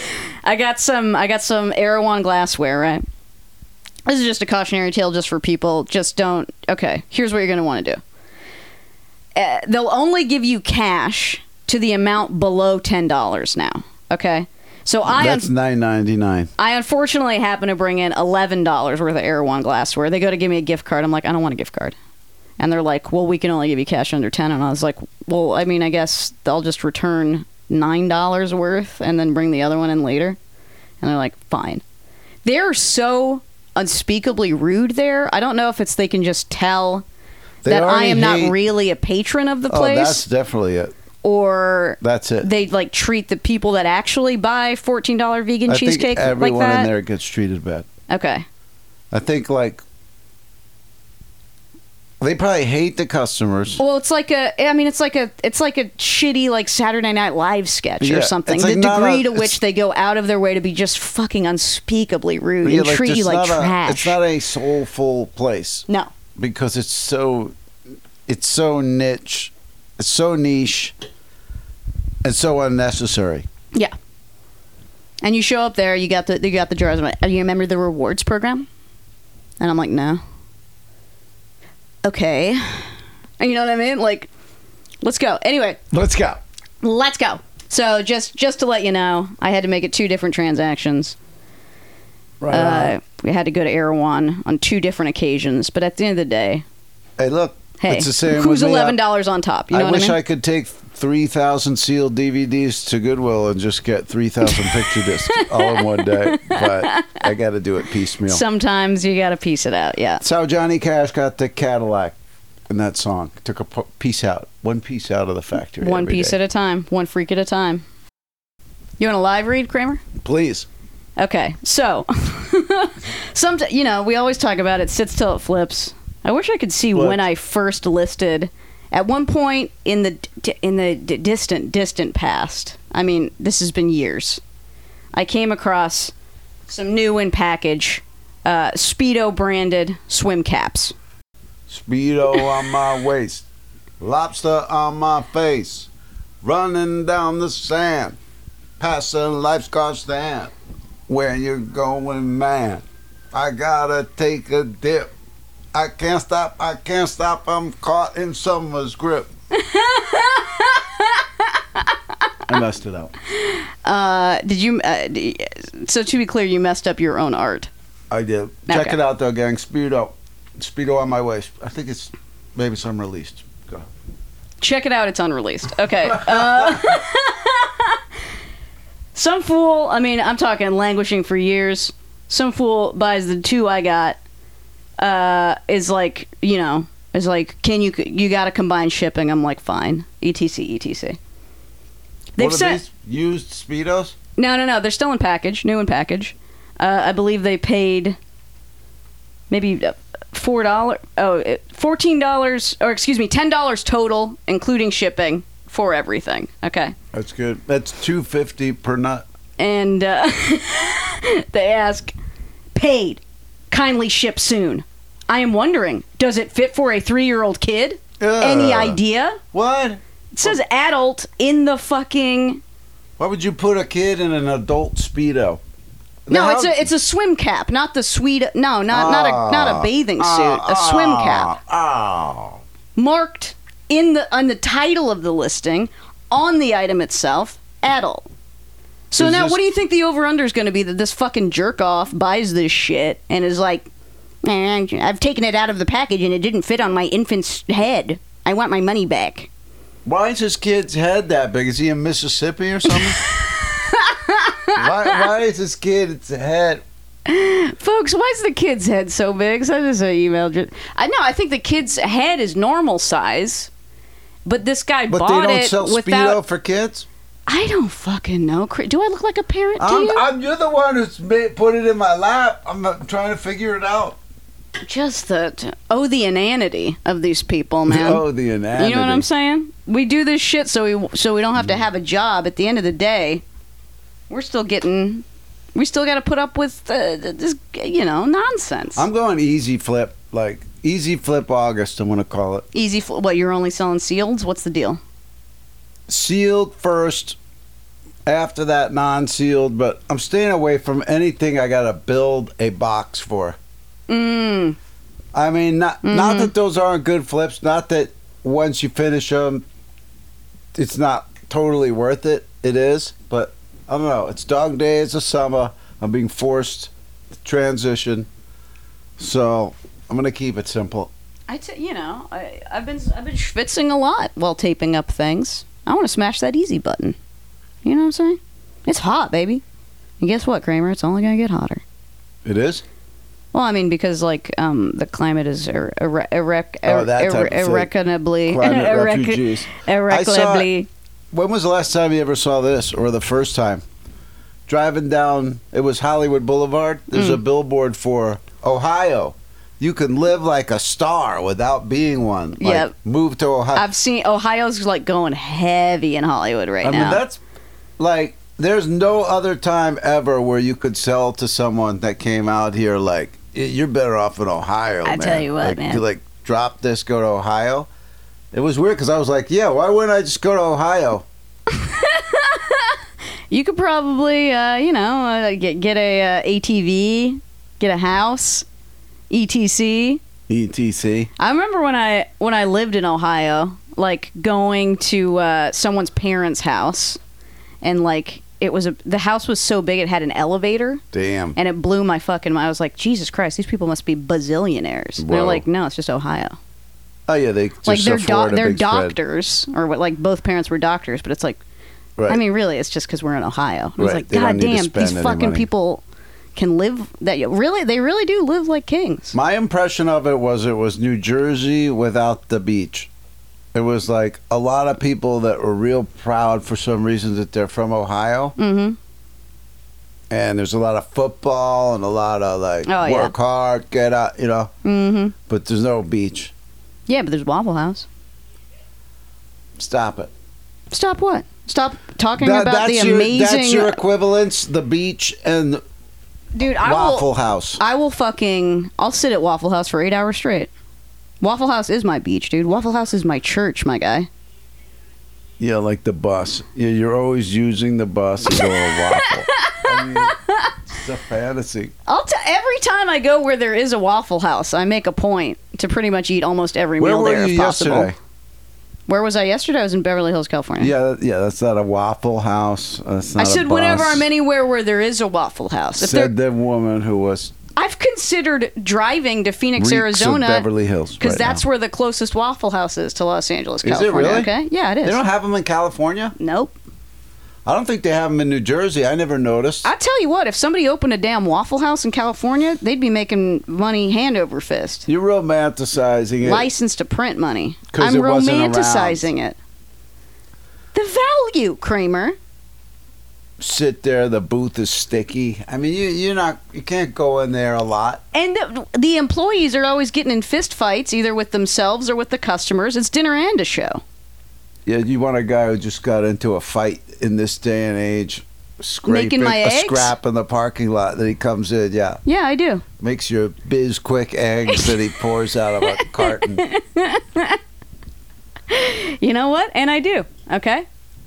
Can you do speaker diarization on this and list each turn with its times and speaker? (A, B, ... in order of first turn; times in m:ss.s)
0:00.4-0:03.0 A
0:04.0-0:08.0 A
0:09.4-0:15.5 A
0:15.1-0:16.5 B
0:16.6-0:21.9 A
0:22.6-0:30.4 A
0:31.0-0:31.8 A
0:32.4-0:37.0 A
0:37.6-0:38.6 B
0:37.6-0:40.2 A
0:39.7-0:40.9 B
0:41.2-0:46.9 A
0:42.0-0:42.5 B
0:45.7-0:47.9 B
0:48.1-0:48.4 A
0:49.1-0:49.8 B
0:52.2-0:53.8 B
0:53.8-1:04.2 A
0:58.0-0:59.6 B
1:02.6-1:07.5 B
1:08.3-1:10.9 B
1:12.2-1:13.4 B
1:15.2-1:18.7 A
1:19.6-1:20.2 A
1:22.0-1:24.3 A
1:25.0-1:25.8 A
1:25.9-1:26.4 B
1:26.8-1:31.2 A
1:32.4-1:32.9 B
1:32.5-1:36.6 A
1:37.2-1:39.0 B
1:37.8-1:40.2 A
1:39.7-1:48.4 B
1:44.4-1:47.3 A
1:48.2-1:50.2 A
1:50.2-1:52.2 B
1:52.7-1:56.4 B
1:55.8-1:57.8 A
1:59.0-2:00.0 A
2:00.2-2:00.7 B
2:01.2-2:14.4 A
2:06.9-2:07.2 B
2:15.1-2:16.1 A
2:16.7-2:20.9 A
2:21.7-2:23.4 B
2:24.0-2:25.9 B
2:26.4-2:28.2 B
2:28.8-2:30.5 B
2:31.1-2:35.1 B
2:35.7-2:39.3 B
2:39.5-2:42.0 A
2:42.5-2:43.1 B
2:43.3-2:47.7 A
2:48.1-2:53.9 B
2:48.7-2:49.0 A
2:54.6-2:58.0 A
2:56.1-2:56.8 B
2:59.1-3:04.2 A
3:05.0-3:11.2 A
3:12.4-3:12.8 A
3:12.4-3:14.2 B
3:14.4-3:18.2 A
3:19.5-3:26.9 A
3:27.1-3:29.2 B
3:29.6-3:32.1 A
3:32.7-3:39.4 A
3:38.2-3:39.0 B
3:39.5-3:40.6 B
3:40.3-3:42.6 A
3:43.2-3:45.6 B
3:46.2-3:46.8 B
3:46.3-3:51.5 A
3:48.9-3:52.6 B
3:53.0-3:58.3 A
3:59.1-4:03.9 A
3:59.2-3:59.6 B
4:04.4-4:09.5 A
4:10.0-4:13.2 B
4:12.9-4:15.2 A
4:14.7-4:16.8 B
4:17.2-4:23.7 A
4:24.4-4:26.4 A
4:25.1-4:27.0 B
4:27.5-4:30.2 A
4:29.8-4:34.2 B
4:34.8-4:38.2 A
4:37.9-4:39.2 B
4:38.7-4:43.4 A
4:44.3-4:45.2 A
4:45.7-4:49.0 A
4:49.0-4:52.6 B
4:52.7-4:55.0 A
4:56.1-4:57.4 B
4:58.2-5:03.6 B
5:04.1-5:04.8 A
5:05.3-5:09.6 B
5:06.0-5:06.5 A
5:10.7-5:18.3 B
5:19.2-5:21.1 B
5:21.5-5:27.2 A
5:27.8-5:29.6 A
5:30.2-5:31.8 A
5:32.4-5:32.8 B
5:33.5-5:40.9 A
5:36.8-5:37.9 B
5:38.4-5:40.7 B
5:41.3-5:43.8 B
5:44.7-5:53.9 B
5:47.1-5:47.4 A
5:52.6-5:52.9 A
5:53.7-5:57.2 A
5:56.8-5:57.4 B
5:58.0-6:07.9 B
6:05.0-6:06.0 A
6:08.5-6:11.2 B
6:11.7-6:13.0 A
6:13.5-6:18.6 A
6:19.3-6:20.2 A
6:20.5-6:21.3 B
6:21.4-6:27.2 A
6:27.8-6:31.0 A
6:31.1-6:31.6 B
6:31.5-6:36.6 A
6:35.2-6:35.6 B
6:37.3-6:39.2 B
6:37.8-6:41.6 A
6:42.3-6:46.0 A
6:44.0-6:45.7 B
6:46.6-6:49.4 A
6:49.3-6:53.1 B
6:53.7-6:58.6 B
6:58.6-6:59.0 A
7:00.3-7:04.7 B
7:02.8-7:03.3 A
7:04.8-7:05.3 A
7:05.5-7:06.5 B
7:07.1-7:08.0 A
7:09.8-7:10.3 B
7:10.9-7:14.0 A
7:12.4-7:15.8 B
7:16.5-7:20.7 A
7:16.8-7:17.8 B
7:21.4-7:24.3 A
7:25.6-7:30.4 B
7:28.5-7:30.7 A
7:30.9-7:31.9 B
7:32.1-7:38.1 A
7:37.0-7:38.2 B
7:39.1-7:40.9 A
7:40.8-7:44.2 B
7:43.4-7:46.3 A
7:46.0-7:47.5 B
7:47.8-7:50.7 A
7:49.8-7:51.6 B
7:51.2-7:55.2 A
7:53.8-7:54.5 B
7:55.0-7:56.3 B
7:56.4-7:56.8 A
7:57.6-7:59.9 B
7:59.8-8:05.1 A
8:05.1-8:06.7 B
8:06.4-8:09.6 A
8:07.9-8:09.3 B
8:10.9-8:12.4 A
8:13.6-8:18.2 B
8:18.3-8:24.0 A
8:24.8-8:32.2 B
8:29.0-8:30.1 A
8:32.2-8:32.8 A
8:33.0-8:36.6 B
8:34.7-8:34.9 A
8:35.8-8:37.6 A
8:38.7-8:40.8 A